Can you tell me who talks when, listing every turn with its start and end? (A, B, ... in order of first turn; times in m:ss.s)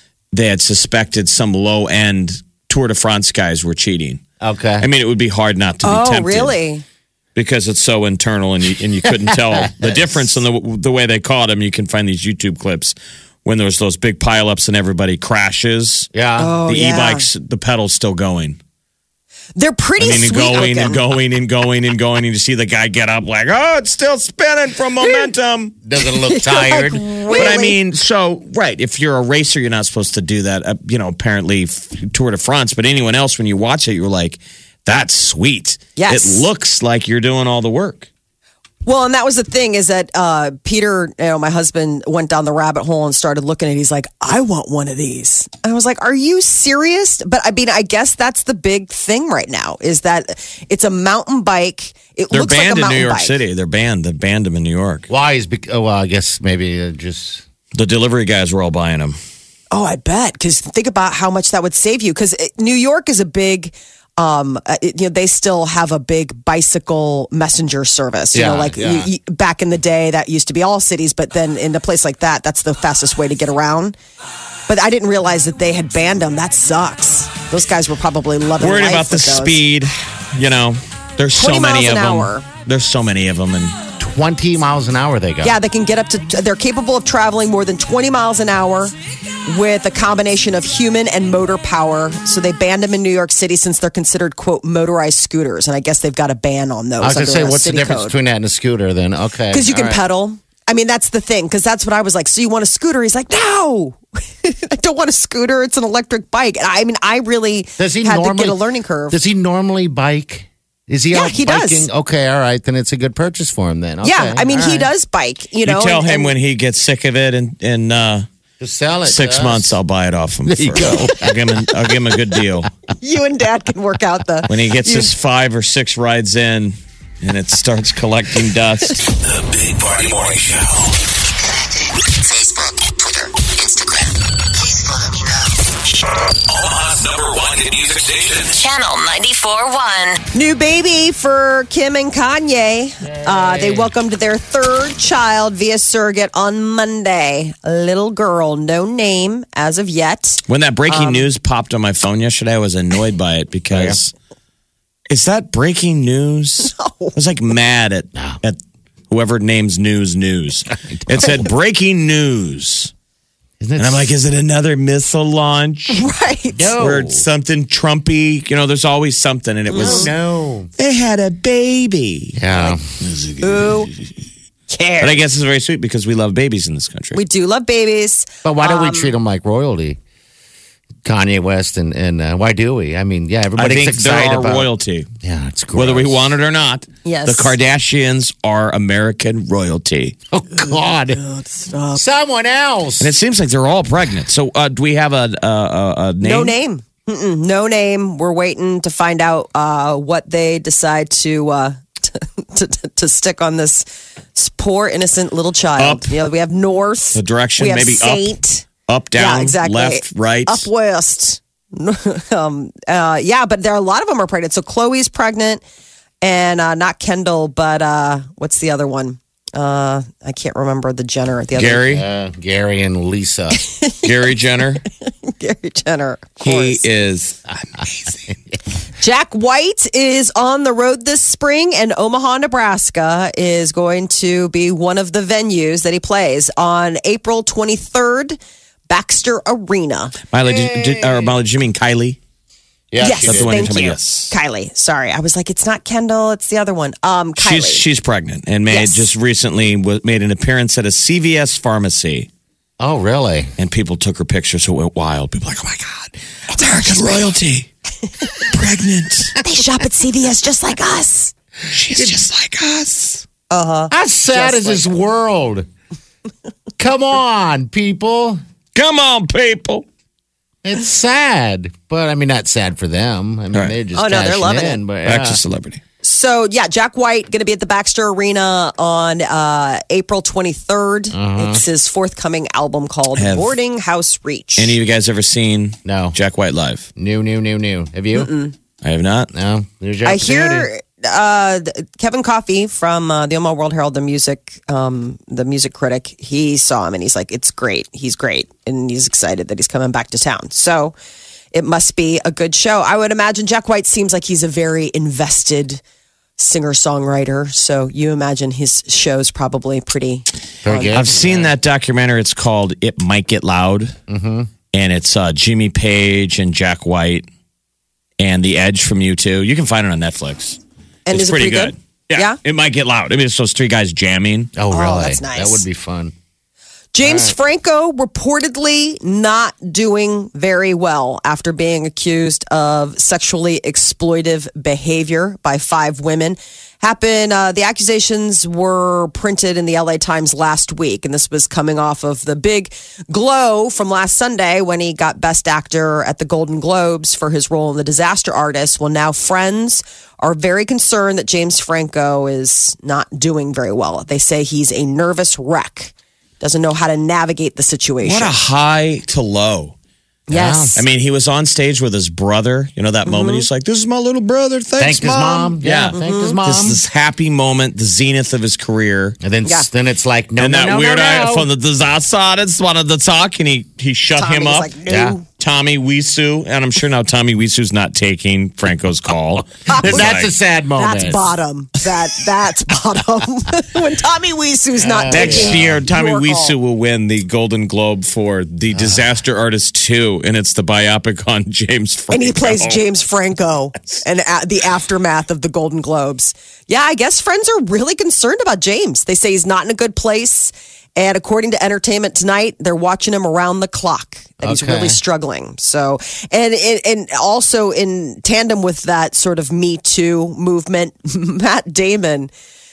0:00.3-0:04.2 A
0:04.4-0:04.9 B
0:04.8-0:06.5 A
0:05.8-0:06.8 C
0:07.3-0:16.1 A
0:09.0-0:10.2 B
0:16.1-0:16.6 B
0:16.4-0:17.2 C
0:16.7-0:18.6 A
0:19.6-0:21.0 C
0:20.0-0:25.7 A
0:25.8-0:27.5 B
0:26.1-0:27.8 C
0:27.3-0:38.1 A
0:36.0-0:36.4 C
0:38.8-0:53.3 C
0:52.3-0:55.1 A
0:55.1-0:57.4 B
0:57.8-0:59.2 A
0:59.7-1:13.9 C
1:08.3-1:09.1 B
1:14.7-1:19.6 C
1:18.6-1:23.7 A
1:21.4-1:22.4 C
1:24.0-1:25.5 B
1:25.4-1:28.9 C
1:29.4-1:38.2 C
1:37.0-1:40.0 B
1:39.5-1:49.2 C
1:47.8-1:54.9 B
1:51.1-1:51.9 C
1:54.0-1:56.3 C
1:55.6-1:58.2 A
1:58.6-1:59.8 B
1:59.0-2:02.7 A
2:00.4-2:01.3 B
2:03.0-2:05.1 C
2:04.5-2:09.0 A
2:09.2-2:11.0 D
2:11.4-2:15.6 E
2:16.5-2:18.6 D
2:18.5-2:20.2 E
2:20.3-2:31.2 C
2:23.2-2:23.9 B
2:30.5-2:34.1 A
2:33.7-2:34.0 B
2:35.1-2:38.6 A
2:36.6-2:37.1 C
2:39.1-2:42.9 A
2:40.8-2:41.5 B
2:43.6-2:44.2 B
2:43.8-2:46.0 A
2:45.9-2:46.7 C
2:46.6-2:47.3 B
2:46.7-2:50.1 A
2:49.7-2:50.1 C
2:49.8-2:50.7 B
2:50.8-2:54.1 A
2:52.4-2:52.8 B
2:53.4-2:53.9 C
2:54.7-2:55.2 C
2:55.0-2:57.2 A
2:57.1-2:59.1 C
2:58.4-3:00.0 B
3:01.0-3:04.7 B
3:03.6-3:05.1 A
3:05.2-3:06.3 B
3:05.7-3:10.2 A
3:07.0-3:07.5 C
3:10.3-3:11.2 B
3:11.1-3:12.0 C
3:11.9-3:13.1 B
3:13.0-3:16.5 A
3:16.2-3:28.6 C
3:25.8-3:26.2 A
3:27.1-3:28.3 A
3:28.9-3:30.7 A
3:29.2-3:35.6 C
3:36.2-3:41.9 C
3:41.5-3:42.0 A
3:41.9-3:43.6 B
3:43.6-3:44.0 C
3:44.0-3:44.8 A
3:45.0-3:46.8 C
3:46.4-3:48.2 A
3:47.8-3:48.5 B
3:49.0-3:58.4 C
3:58.9-4:00.1 C
4:00.3-4:02.2 A
4:00.4-4:01.3 B
4:02.9-4:03.6 B
4:03.0-4:07.8 C
4:03.2-4:04.3 A
4:07.4-4:12.3 A
4:08.7-4:09.0 C
4:12.8-4:13.5 B
4:13.6-4:17.7 A
4:16.5-4:17.4 C
4:18.4-4:19.4 A
4:19.4-4:21.3 C
4:21.7-4:23.2 A
4:23.5-4:24.9 C
4:23.9-4:25.7 B
4:26.8-4:28.4 B
4:28.7-4:29.8 A
4:30.6-4:35.4 B
4:33.9-4:34.8 C
4:35.0-4:35.8 A
4:36.0-4:44.8 C
4:41.1-4:41.6 B
4:43.2-4:43.6 A
4:44.6-4:46.9 A
4:45.8-4:46.2 B
4:47.0-4:48.3 B
4:48.1-4:48.5 C
4:48.8-4:49.3 A
4:49.3-4:50.7 B
4:50.0-5:00.9 C
5:01.5-5:05.8 C
5:06.4-5:11.0 C
5:10.6-5:11.5 B
5:10.9-5:14.0 A
5:14.1-5:14.5 B
5:14.7-5:17.2 A
5:18.2-5:20.6 A
5:21.1-5:22.4 C
5:21.1-5:24.5 A
5:24.6-5:26.1 B
5:24.7-5:25.6 C
5:26.9-5:58.3 C
5:27.0-5:27.4 B
5:58.0-5:59.7 A
6:00.3-6:00.8 B
6:00.3-6:00.8 C
6:00.8-6:09.2 A
6:03.0-6:03.4 C
6:04.8-6:06.8 B
6:05.9-6:06.4 C
6:09.2-6:11.5 B
6:10.4-6:14.7 A
6:14.1-6:15.2 C
6:14.9-6:15.2 B
6:15.3-6:20.3 A
6:19.7-6:20.2 C
6:19.8-6:21.2 B
6:20.8-6:26.5 C
6:24.8-6:25.8 B
6:25.1-6:32.8 A
6:32.1-6:52.3 C
6:44.4-6:45.0 B